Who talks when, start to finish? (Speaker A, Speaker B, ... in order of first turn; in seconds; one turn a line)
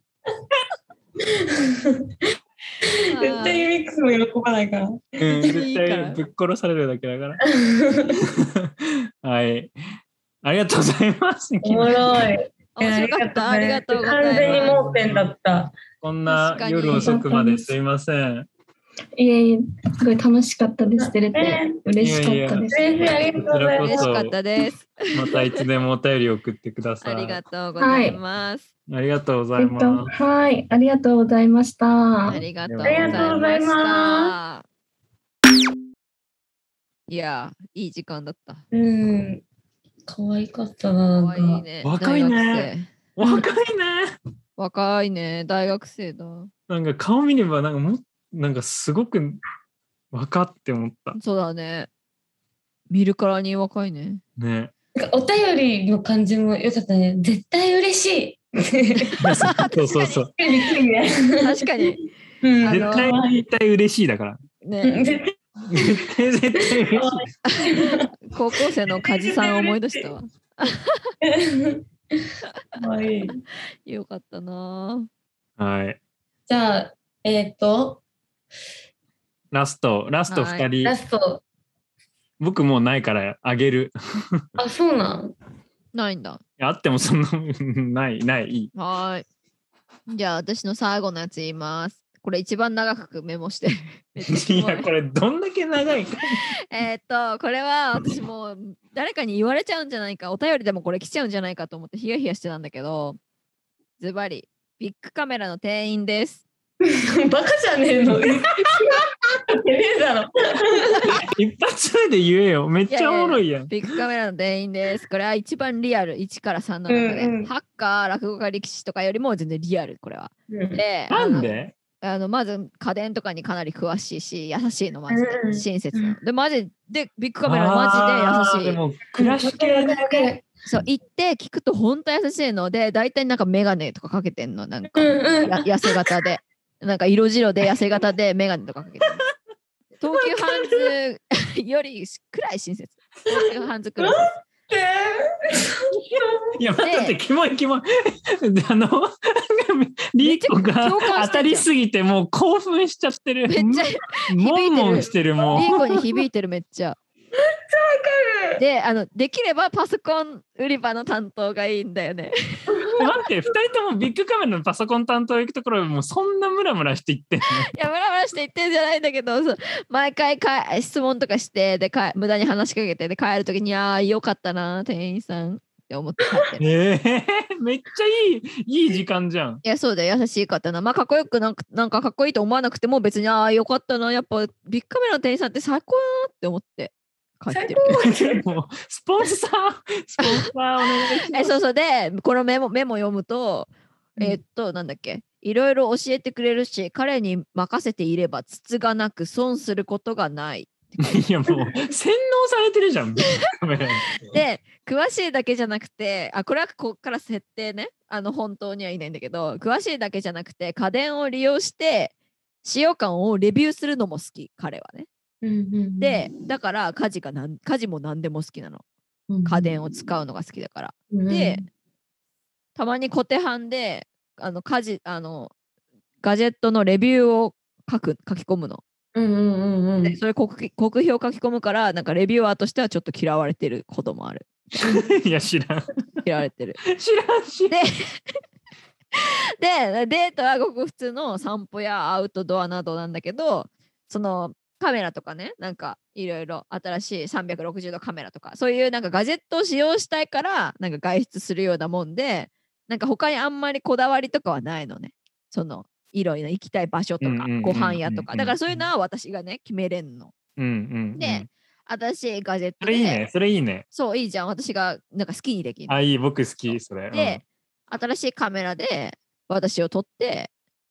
Speaker A: 1.2-2.1
Speaker A: 2.9-5.2
Speaker B: 3.0-3.7
Speaker C: 5.2-7.4
Speaker B: 5.3-6.2
Speaker A: 7.5-8.2
Speaker C: 8.2-9.7
Speaker C: 10.4-12.2
Speaker A: 11.6-15.7
Speaker B: 12.8-14.9
Speaker C: 14.3-15.3
Speaker C: 16.0-18.5
Speaker B: 16.3-17.3
Speaker D: 16.9-17.7
Speaker D: 19.2-23.1
Speaker A: 21.0-21.8
Speaker C: 22.0-24.4
Speaker A: 22.7-24.1
Speaker B: 23.8-25.5
Speaker C: 25.1-27.4
Speaker B: 27.0-28.7
Speaker D: 27.8-28.2
Speaker C: 28.9-30.1
Speaker D: 29.6-32.4
Speaker B: 32.3-34.6
Speaker C: 32.6-33.4
Speaker A: 32.8-34.3
Speaker B: 37.1-38.6
Speaker A: 38.7-39.4
Speaker A: 40.1-41.6
Speaker B: 41.1-42.9
Speaker C: 41.8-44.1
Speaker B: 44.6-46.5
Speaker C: 46.7-49.4
Speaker C: 50.1-51.2
Speaker B: 51.2-51.9
Speaker B: 52.9-54.2
Speaker C: 54.4-54.7
Speaker A: 55.0-59.2
Speaker C: 59.2-60.3
Speaker B: 59.3-60.3
Speaker A: 60.3-61.5
Speaker B: 61.4-62.0
Speaker A: 62.4-63.5
Speaker B: 62.6-63.1
Speaker C: 62.7-64.4
Speaker B: 64.6-65.0
Speaker A: 64.8-66.0
Speaker C: 65.7-67.3
Speaker A: 66.6-68.1
Speaker B: 67.5-71.1
Speaker A: 69.0-70.1
Speaker A: 71.2-73.4
Speaker B: 73.9-75.1
Speaker C: 75.6-76.0
Speaker A: 76.5-78.0
Speaker C: 79.5-80.9
Speaker B: 80.3-80.7
Speaker A: 80.8-81.4
Speaker C: 82.4-84.4
Speaker A: 84.6-85.3
Speaker B: 85.9-86.4
Speaker C: 86.6-88.7
Speaker B: 88.8-89.2
Speaker B: 90.1-94.9
Speaker C: 94.2-96.4
Speaker B: 96.7-103.2
Speaker B: 104.0-106.4
Speaker A: 106.8-111.2
Speaker C: 111.3-113.7
Speaker B: 112.9-128.8
Speaker A: 116.9-117.5
Speaker A: 120.5-120.8
Speaker C: 121.1-121.7
Speaker A: 125.1-126.2
Speaker C: 127.5-130.3
Speaker A: 129.2-130.5
Speaker B: 130.7-139.2
Speaker A: 134.9-135.7
Speaker B: 140.0-144.3
Speaker C: 140.1-140.9
Speaker A: 144.0-146.5
Speaker C: 146.6-156.0
Speaker B: 146.8-147.2
Speaker B: 150.2-151.7
Speaker B: 153.5-157.0
Speaker A: 157.5-158.6
Speaker B: 158.6-162.9
Speaker A: 162.7-163.1
Speaker C: 163.0-167.7
Speaker B: 167.7-176.7
Speaker C: 176.6-179.6
Speaker B: 179.6-188.0
Speaker A: 187.5-188.5
Speaker C: 187.9-191.6
Speaker B: 191.3-201.3
Speaker C: 201.0-204.1
Speaker B: 204.2-215.1
Speaker A: 215.4-216.3
Speaker B: 216.0-218.8
Speaker A: 219.3-220.0
Speaker B: 219.4-221.7
Speaker A: 221.1-221.7
Speaker B: 222.8-225.5
Speaker B: 226.2-228.8
Speaker A: 229.2-230.2
Speaker B: 230.0-234.5
Speaker C: 234.8-235.9
Speaker B: 236.2-236.8
Speaker C: 236.9-237.8
Speaker B: 237.7-238.1
Speaker B: 239.1-260.3
Speaker C: 257.2-258.8
Speaker C: 260.6-261.5
Speaker B: 261.1-263.2
Speaker C: 262.8-263.9
Speaker B: 263.9-265.9
Speaker C: 265.9-267.4
Speaker B: 267.1-270.5